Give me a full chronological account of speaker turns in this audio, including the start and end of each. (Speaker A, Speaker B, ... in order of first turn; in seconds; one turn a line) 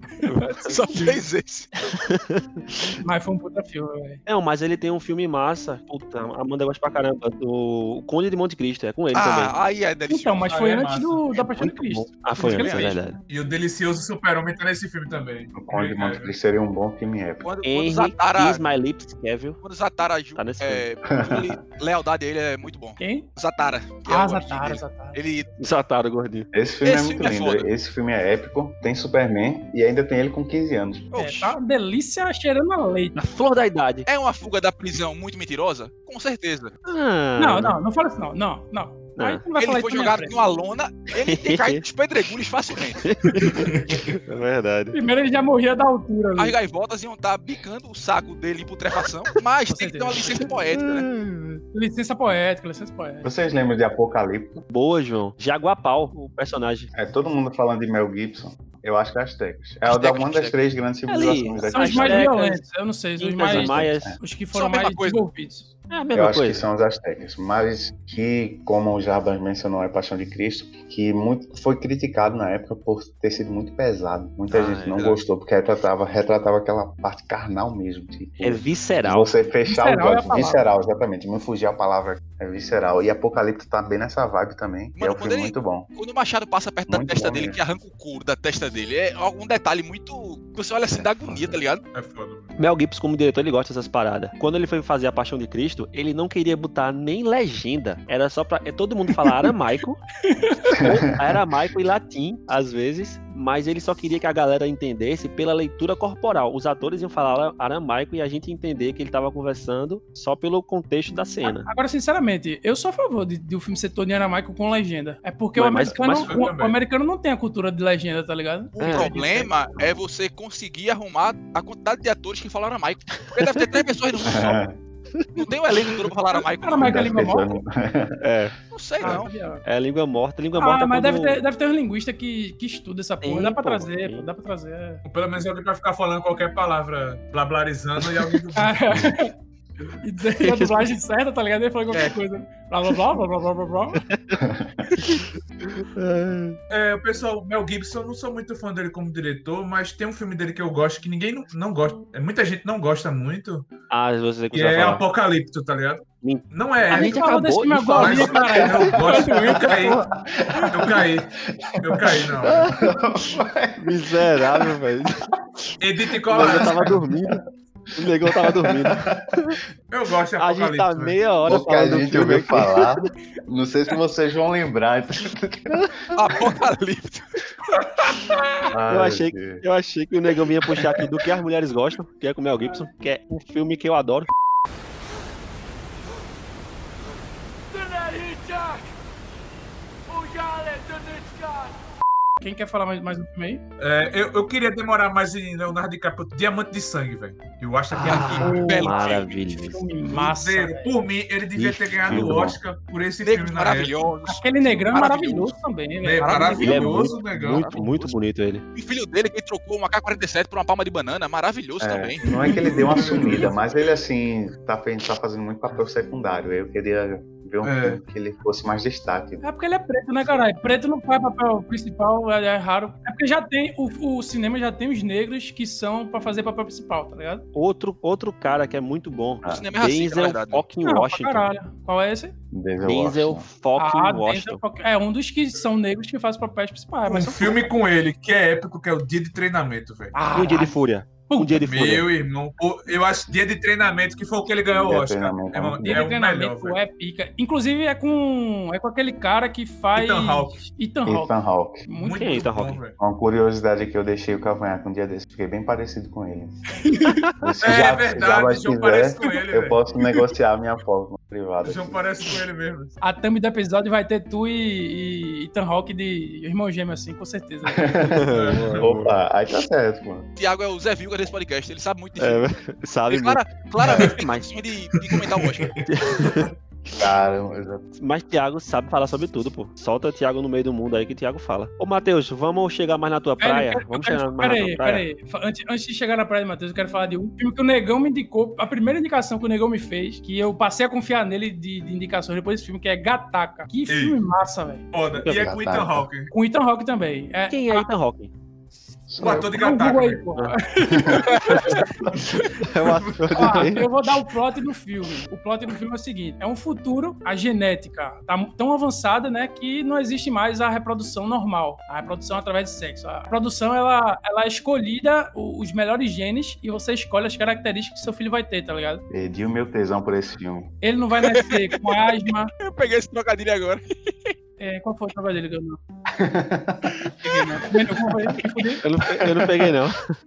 Speaker A: 0.2-0.8
Speaker B: 0.3-1.2
Speaker C: 0.7-1.7
Speaker A: 1.9-3.0
Speaker B: 3.0-4.2
Speaker A: 4.3-9.5
Speaker C: 9.1-10.6
Speaker B: 10.1-13.0
Speaker D: 10.4-11.2
Speaker A: 11.6-13.2
Speaker C: 12.4-12.9
Speaker D: 13.3-16.3
Speaker E: 15.5-17.4
Speaker C: 17.4-18.6
Speaker A: 17.6-19.6
Speaker C: 19.6-25.5
Speaker A: 20.4-20.8
Speaker E: 21.1-21.6
Speaker B: 23.0-23.3
Speaker B: 24.1-25.2
Speaker A: 25.6-26.5
Speaker E: 26.5-31.1
Speaker C: 26.8-27.7
Speaker C: 31.1-31.6
Speaker B: 31.1-33.1
Speaker A: 33.1-34.1
Speaker C: 34.0-36.7
Speaker A: 36.9-37.8
Speaker B: 37.4-40.4
Speaker A: 39.2-39.4
Speaker C: 39.6-43.1
Speaker A: 41.2-41.8
Speaker A: 43.0-45.0
Speaker D: 43.4-44.0
Speaker B: 44.9-46.5
Speaker C: 46.4-51.1
Speaker B: 49.7-50.5
Speaker A: 50.7-51.6
Speaker B: 51.7-53.3
Speaker E: 53.2-54.6
Speaker A: 54.7-56.9
Speaker E: 56.9-62.3
Speaker C: 59.8-60.6
Speaker A: 61.1-62.6
Speaker B: 61.7-65.7
Speaker A: 63.2-64.2
Speaker E: 63.4-64.2
Speaker C: 64.5-65.2
Speaker A: 65.9-66.7
Speaker E: 66.1-85.9
Speaker A: 74.5-75.1
Speaker A: 78.4-79.3
Speaker B: 79.7-80.6
Speaker C: 85.0-91.8
Speaker E: 86.9-87.6
Speaker E: 91.2-91.5
Speaker D: 91.9-92.5
Speaker A: 92.6-100.0
Speaker B: 100.3-100.8
Speaker A: 100.8-111.7
Speaker B: 111.4-119.5
Speaker A: 115.5-116.4
Speaker D: 116.2-116.8
Speaker C: 118.8-124.6
Speaker A: 118.8-119.1
Speaker A: 123.2-123.8
Speaker E: 124.2-124.8
Speaker C: 125.3-127.1
Speaker B: 126.3-127.6
Speaker E: 126.8-128.2
Speaker A: 128.2-131.4
Speaker C: 128.7-129.3
Speaker B: 129.0-129.6
Speaker B: 130.6-135.0
Speaker A: 133.2-134.3
Speaker D: 135.0-138.8
Speaker B: 138.5-139.3
Speaker B: 140.0-144.0
Speaker A: 140.4-140.9
Speaker A: 144.0-144.4
Speaker E: 144.4-144.8
Speaker A: 145.0-146.6
Speaker D: 146.7-153.7
Speaker A: 153.9-155.0
Speaker D: 154.5-157.2
Speaker A: 156.2-160.6
Speaker B: 156.9-159.9
Speaker D: 157.9-160.0
Speaker E: 159.5-161.1
Speaker D: 160.7-161.3
Speaker E: 161.7-164.8
Speaker D: 161.8-162.7
Speaker A: 162.4-162.7
Speaker A: 163.8-165.3
Speaker D: 165.8-166.9
Speaker E: 166.2-167.4
Speaker A: 166.3-167.4
Speaker A: 168.0-169.6
Speaker E: 168.2-169.5
Speaker D: 169.9-171.2
Speaker A: 170.4-172.9
Speaker E: 171.5-176.5
Speaker C: 176.1-177.2
Speaker E: 178.7-179.6
Speaker A: 178.9-184.3
Speaker B: 192.4-193.6
Speaker D: 193.8-198.7
Speaker A: 197.9-199.8
Speaker B: 198.0-201.0
Speaker C: 198.1-199.3
Speaker D: 200.1-204.0
Speaker A: 201.5-202.5
Speaker E: 202.0-202.6
Speaker C: 203.2-205.5
Speaker B: 204.2-207.2
Speaker D: 206.0-208.1
Speaker A: 206.6-208.6
Speaker C: 207.5-208.0
Speaker C: 208.7-212.2
Speaker E: 211.8-219.4
Speaker D: 212.3-213.6
Speaker D: 217.6-218.0
Speaker B: 219.4-227.4
Speaker A: 227.5-231.5
Speaker C: 229.4-230.7
Speaker B: 230.8-232.3
Speaker E: 232.5-233.5
Speaker A: 232.8-234.6
Speaker B: 233.8-237.7
Speaker D: 237.1-240.1
Speaker B: 240.1-240.7
Speaker A: 240.3-242.1
Speaker B: 241.3-241.8
Speaker D: 241.6-246.8
Speaker E: 244.7-246.1
Speaker B: 245.8-251.3
Speaker D: 249.9-250.6
Speaker E: 251.0-251.8
Speaker B: 251.9-252.4
Speaker D: 252.0-253.0
Speaker A: 252.1-252.8
Speaker E: 253.0-256.7
Speaker B: 256.8-257.2
Speaker E: 257.4-262.0
Speaker D: 257.6-259.9
Speaker D: 261.6-262.9
Speaker B: 263.0-268.2
Speaker E: 267.6-270.3
Speaker A: 268.1-269.1
Speaker D: 268.3-269.0
Speaker C: 270.4-272.4
Speaker A: 272.2-273.4
Speaker C: 273.1-275.8
Speaker A: 273.9-274.5
Speaker D: 275.1-275.8
Speaker A: 275.8-276.5
Speaker E: 276.9-277.8
Speaker A: 277.9-285.1
Speaker B: 283.4-294.9
Speaker D: 293.9-294.2
Speaker D: 294.9-296.3
Speaker E: 295.1-296.1
Speaker B: 296.3-297.9
Speaker A: 297.5-298.3
Speaker E: 299.1-299.6
Speaker D: 299.2-300.2
Speaker B: 299.2-302.6
Speaker E: 300.9-301.3
Speaker A: 301.4-303.9
Speaker D: 301.5-302.2
Speaker D: 302.8-303.6
Speaker B: 303.3-319.0
Speaker E: 319.1-320.7
Speaker B: 320.8-322.5
Speaker C: 321.2-324.3
Speaker B: 324.6-325.8
Speaker E: 326.1-327.0
Speaker B: 327.2-328.8
Speaker A: 328.8-330.1